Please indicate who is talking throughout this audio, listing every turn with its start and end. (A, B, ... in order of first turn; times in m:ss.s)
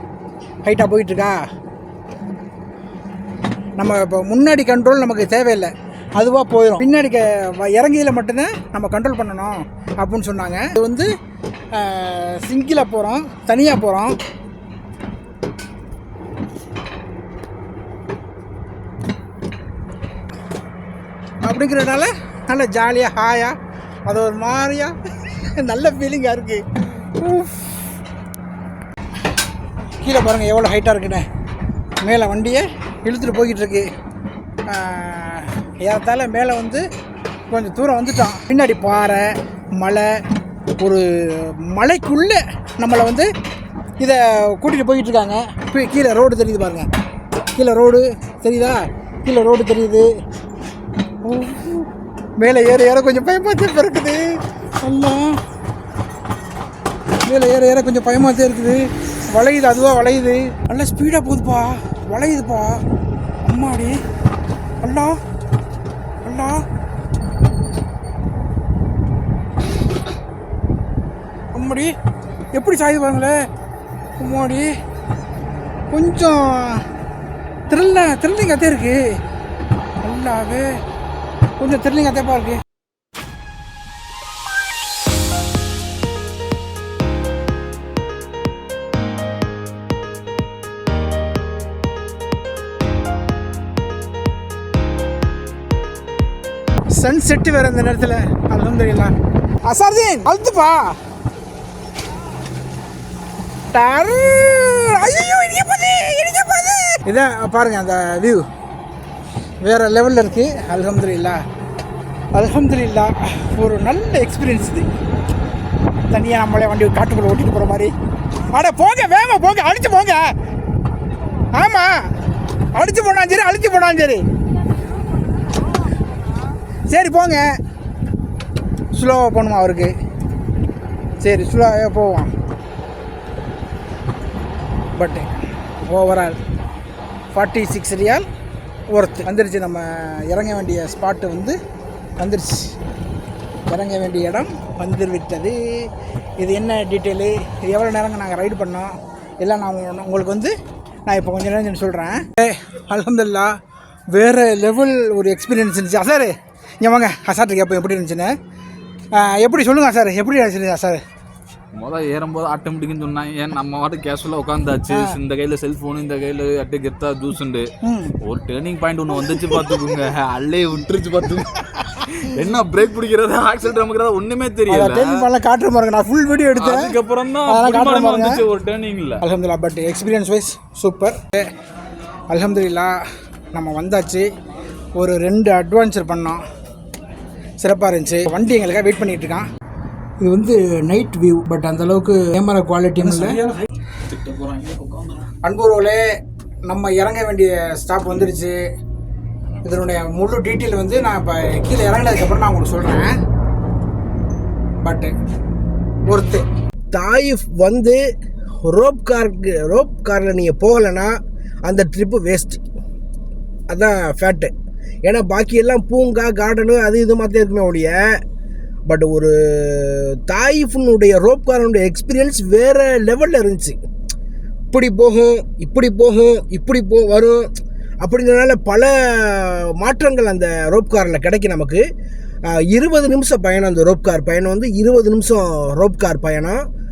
0:00.6-0:01.4 A
0:03.8-0:11.1 A
0:11.8-0:14.1 A
0:21.4-0:23.5 A
0:24.1-0:24.9 A
0:25.6-0:27.7 A
0:30.0-0:31.2 A
0:32.0-0:33.8 A
0:34.7-0:36.8 A
0:37.5-0:39.2 A
0:39.8-0:40.1 A
0:40.8-0:43.3 A
0:44.0-0:46.9 A
0:47.5-0:50.1 A
0:51.2-0:51.9 A
0:52.4-0:54.2 A
0:54.8-0:55.4 A
0:57.2-0:58.8 A
0:59.3-1:02.8 A
1:03.4-1:04.0 A
1:04.8-1:05.2 A
1:06.2-1:06.6 A
1:11.5-1:11.9 A
1:12.5-1:13.3 A
1:14.2-1:14.7 A
1:15.9-1:16.8 A
1:17.7-1:19.0 A
1:20.0-1:20.7 A
1:21.6-1:22.6 A
1:36.9-1:39.1 A
1:39.6-1:40.9 A
1:43.7-1:48.4 A
1:49.6-1:51.4 A
1:52.3-1:54.9 A
1:56.0-1:57.9 A
1:58.5-2:00.2 A
2:01.5-2:01.9 A
2:02.7-2:04.2 A
2:06.9-2:07.4 A
2:09.0-2:09.9 A
2:11.2-2:12.3 A
2:15.0-2:15.3 A
2:15.9-2:16.4 A
2:17.3-2:18.2 A
2:18.9-2:21.6 A
2:22.2-2:22.7 A
2:23.7-2:25.6 A
2:26.4-2:30.5 A
2:31.1-2:33.5 A
2:34.1-2:36.3 A
2:36.8-2:38.3 A
2:39.2-2:41.0 A
2:41.7-2:47.7 B
2:44.9-2:45.2 A
2:47.8-2:48.1 A
2:48.2-2:55.2 B
2:49.3-2:49.8 A
2:54.7-2:56.9 A
2:56.6-2:59.2 B
2:57.5-2:58.4 A
2:59.2-3:01.3 A
3:02.3-3:02.9 A
3:03.5-3:04.2 A
3:05.0-3:06.4 A
3:07.6-3:09.4 A
3:10.2-3:13.4 A
3:13.2-3:13.5 B
3:14.1-3:15.1 B
3:15.4-3:16.0 A
3:16.7-3:18.5 A
3:19.6-3:23.1 A
3:24.8-3:25.1 A
3:26.1-3:26.4 A
3:26.9-3:28.0 C
3:28.6-3:31.1 C
3:31.6-3:32.6 C
3:33.7-3:34.5 C
3:35.0-3:38.2 C
3:38.9-3:43.8 C
3:44.7-3:47.5 C
3:48.0-3:51.8 C
3:52.5-3:56.6 C